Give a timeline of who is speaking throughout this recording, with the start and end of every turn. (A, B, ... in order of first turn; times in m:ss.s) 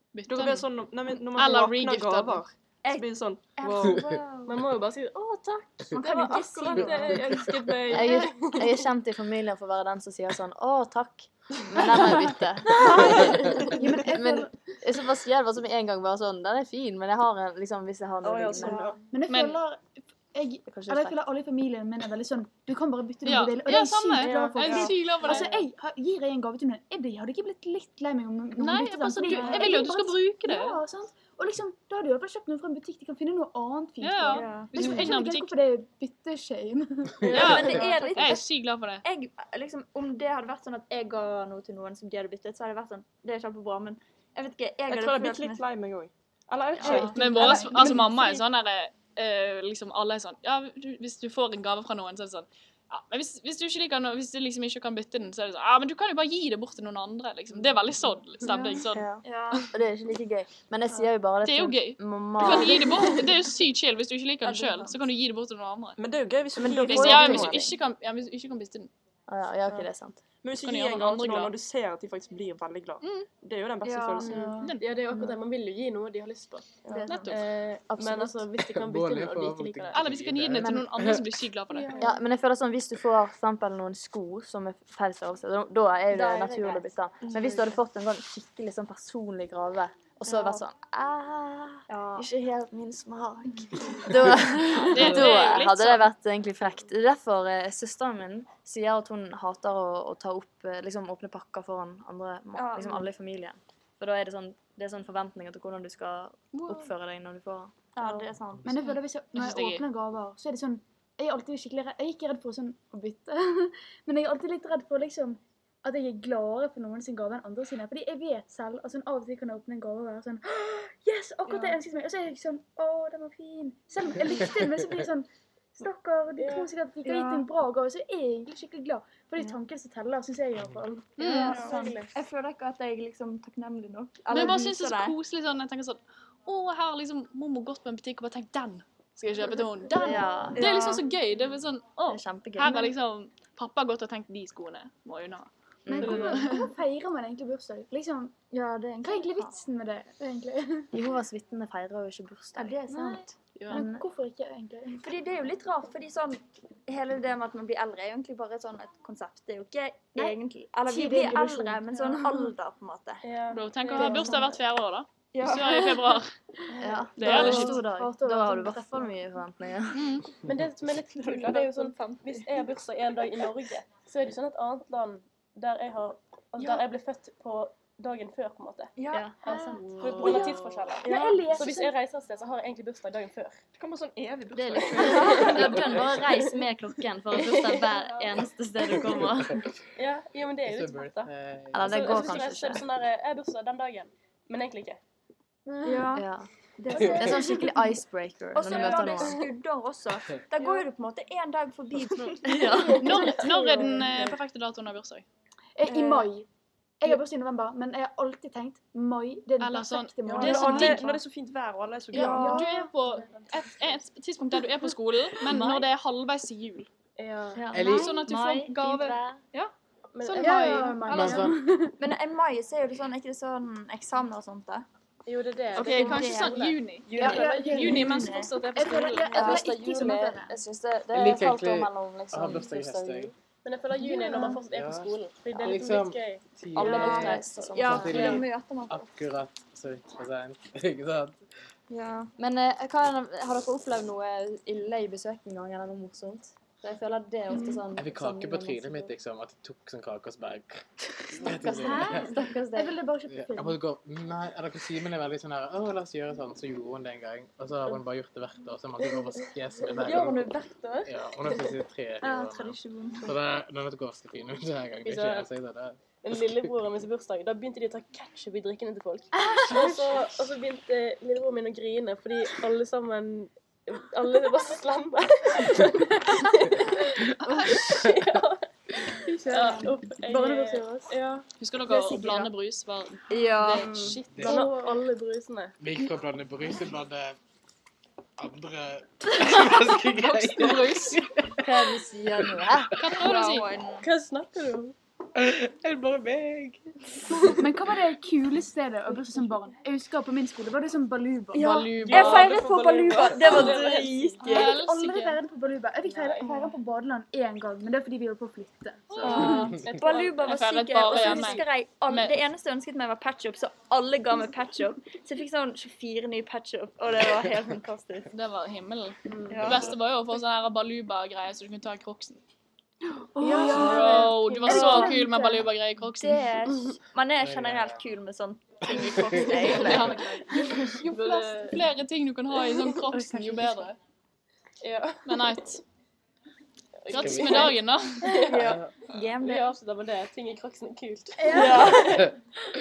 0:00.1-0:00.7 A
0:00.3-0:04.1 B
0:01.3-0:02.4 A
0:02.8-0:04.6 C
0:04.4-0:08.8 D
0:05.9-0:07.3 C
0:07.9-0:18.9 E
0:12.9-0:13.4 B
0:13.6-0:14.5 F
0:18.2-0:19.0 B
0:18.5-0:19.0 C
0:19.1-0:37.9 F
0:19.2-0:19.6 A
0:20.7-0:21.2 E
0:23.2-0:25.5 A
0:24.2-0:25.4 B
0:28.6-0:30.8 A
0:29.3-0:29.8 C
0:34.0-0:35.5 A
0:34.3-0:35.0 C
0:37.2-0:38.5 C
0:37.4-0:39.0 A
0:37.4-0:37.8 G
0:37.7-0:38.4 B
0:39.0-0:45.6 C
0:44.9-0:48.4 B
0:46.8-0:47.8 C
0:47.0-0:59.6 A
0:58.9-1:03.2 E
0:59.2-0:59.6 C
1:01.4-1:06.0 A
1:06.0-1:07.8 B
1:06.6-1:07.7 E
1:06.8-1:08.9 A
1:09.3-1:10.2 E
1:10.4-1:14.6 B
1:10.5-1:11.5 A
1:13.0-1:13.3 A
1:14.2-1:14.8 F
1:14.6-1:15.0 A
1:14.8-1:20.2 D
1:16.8-1:17.2 B
1:17.0-1:17.4 A
1:17.9-1:18.5 E
1:18.6-1:21.4 G
1:19.9-1:22.0 A
1:20.6-1:21.1 E
1:21.7-1:22.1 F
1:21.9-1:47.7 E
1:26.1-1:27.8 C
1:30.2-1:30.6 C
1:31.9-1:32.3 C
1:34.9-1:36.1 A
1:42.6-1:43.1 C
1:46.6-1:46.9 A
1:48.0-1:48.7 C
1:48.0-2:12.1 F
1:48.7-1:49.8 A
2:06.4-2:06.7 D
2:07.0-2:07.5 C
2:11.2-2:11.6 A
2:11.2-2:15.2 C
2:11.4-2:12.0 D
2:14.3-2:25.5 A
2:20.0-2:20.7 E
2:20.0-2:20.4 F
2:20.6-2:21.1 C
2:22.1-2:22.9 E
2:25.9-2:26.4 E
2:25.9-2:28.4 F
2:26.0-2:26.6 A
2:28.5-2:29.5 C
2:29.0-2:30.9 F
2:30.9-2:32.8 E
2:32.6-2:33.8 C
2:32.9-2:35.1 F
2:33.6-2:33.9 A
2:33.7-2:34.0 E
2:35.0-2:43.3 C
2:40.2-2:42.5 F
2:43.2-2:44.6 D
2:43.5-2:46.3 A
2:45.3-2:46.1 C
2:46.8-2:49.3 F
2:46.8-2:50.2 E
2:47.2-2:47.6 D
2:47.3-2:47.8 A
2:47.4-2:47.7 C
2:49.9-2:50.4 A
2:50.4-3:03.6 D
2:51.4-2:52.0 C
2:59.4-3:00.4 F
3:00.0-3:01.7 B
3:01.0-3:01.9 F
3:03.8-3:06.2 B
3:04.5-3:09.7 E
3:04.9-3:06.5 D
3:07.3-3:08.3 D
3:10.0-3:11.3 D
3:10.6-3:12.7 G
3:11.7-3:12.9 E
3:11.9-3:15.0 D
3:15.7-3:16.1 F
3:15.8-3:16.3 C
3:16.1-3:16.5 E
3:16.8-3:17.6 C
3:17.0-3:19.5 E
3:18.6-3:23.4 C
3:22.5-3:23.4 E
3:22.6-3:24.2 F
3:23.0-3:25.2 A
3:23.2-3:24.2 D
3:25.8-3:26.5 F
3:25.9-3:26.3 C
3:27.0-3:31.2 F
3:29.6-3:31.1 A
3:30.3-3:32.8 B
3:32.1-3:33.6 F
3:32.5-3:36.9 A
3:35.5-3:35.8 C
3:37.2-3:37.6 D
3:37.6-3:39.4 E
3:37.7-3:38.2 G
3:37.8-3:39.7 A
3:40.1-3:41.0 D
3:40.2-3:41.5 A
3:40.4-3:42.0 F
3:41.0-3:41.6 G
3:42.0-3:44.9 C
3:45.3-3:47.6 D
3:45.7-3:48.5 C
3:45.8-3:47.1 A
3:47.2-3:48.2 F
3:47.7-3:49.3 A
3:48.7-3:49.5 D
3:48.7-3:50.6 F
3:49.3-3:53.3 E
3:51.1-3:53.3 G
3:53.6-3:58.5 D
3:54.1-3:54.5 C
3:54.2-4:01.4 G
3:56.8-3:58.2 E
3:56.8-3:59.1 C
4:01.9-4:02.3 C
4:02.4-4:09.2 E
4:07.9-4:12.3 G
4:11.5-4:13.0 E
4:11.8-4:13.8 F
4:13.3-4:26.0 G
4:19.8-4:21.7 C
4:22.2-4:23.4 C
4:25.0-4:25.5 D
4:26.1-4:41.5 D
4:29.3-4:30.1 F
4:37.5-4:37.8 A
4:39.2-4:41.2 F
4:41.6-4:44.4 A
4:42.0-4:42.3 D
4:43.3-4:44.1 C
4:43.8-4:45.8 D
4:44.3-4:44.6 G
4:44.5-4:44.7 F
4:45.8-4:47.4 G
4:48.4-4:51.7 G
4:50.3-4:51.2 A
4:51.6-4:53.0 E
4:52.4-4:53.3 G
4:53.0-4:53.8 A
4:53.1-4:54.1 C
4:54.0-4:55.0 D
4:55.4-4:56.8 G
4:57.4-5:01.9 F
5:01.5-5:04.7 C
5:01.6-5:02.5 A
5:02.0-5:04.8 D
5:04.4-5:09.8 F
5:04.5-5:05.4 A
5:06.1-5:06.5 D
5:06.4-5:06.8 C
5:09.1-5:09.4 A
5:09.2-5:11.7 D
5:09.2-5:18.3 C
5:10.5-5:12.4 A
5:18.3-5:22.4 A
5:19.3-5:19.7 D
5:19.5-5:19.9 C
5:19.6-5:19.9 G
5:23.2-5:25.7 F
5:23.6-5:24.2 B
5:23.6-5:24.9 D
5:23.7-5:26.5 A
5:24.6-5:25.2 C
5:26.2-5:30.4 C
5:27.4-5:28.0 G
5:28.9-5:30.0 G
5:29.7-5:30.3 D
5:29.9-5:34.0 A
5:30.9-5:31.5 F
5:31.1-5:31.9 D
5:32.7-5:33.2 D
5:33.0-5:33.9 F
5:34.8-5:35.5 D
5:35.2-5:35.8 A
5:37.0-5:38.6 D
5:37.1-5:38.4 A
5:37.1-5:37.6 G
5:38.3-5:39.6 C
5:38.6-5:39.0 G
5:39.4-5:42.4 D
5:41.4-5:42.0 F
5:41.6-5:42.3 G
5:41.7-5:41.9 C